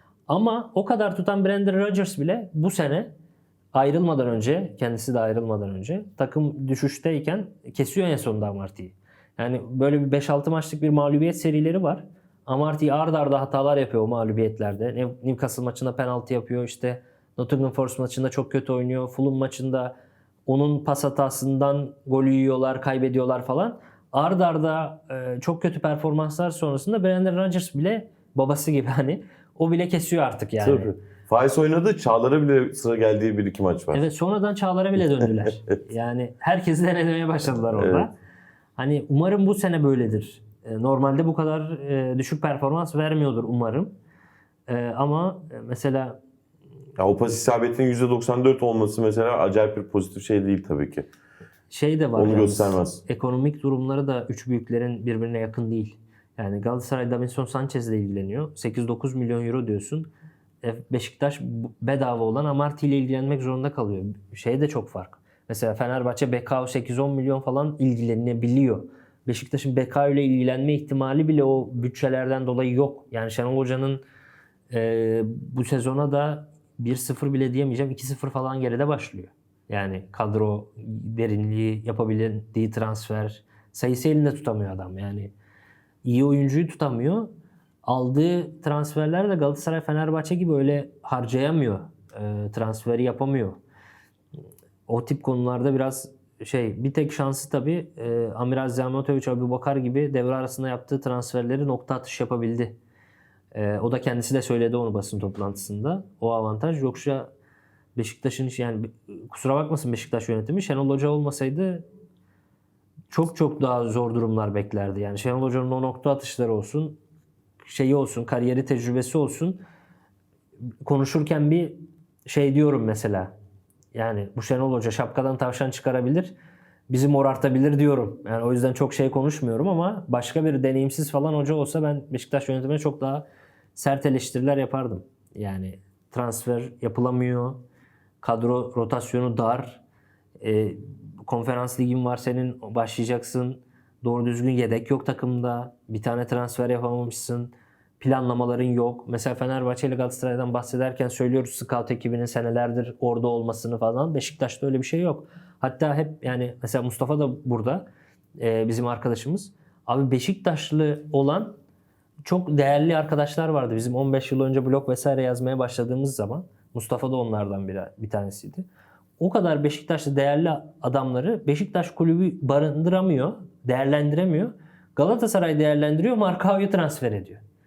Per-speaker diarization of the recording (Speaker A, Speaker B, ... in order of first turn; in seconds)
Speaker A: 0.3-3.1, 3.7-19.9, 20.5-30.9, 33.9-38.1, 38.8-43.9, 44.7-46.2, 51.7-60.1, 60.6-74.0, 74.7-85.3, 86.0-87.3, 87.8-93.6, 94.9-102.8, 103.5-107.3, 108.0-111.9, 113.1-117.0, 117.7-119.6, 120.8-123.3, 123.9-126.3, 126.9-137.6, 138.2-139.8, 140.4-157.9, 158.4-161.6, 162.2-168.7, 169.2-177.4
Speaker B: 30.6-34.1, 37.8-38.1, 47.0-51.1, 52.2-53.0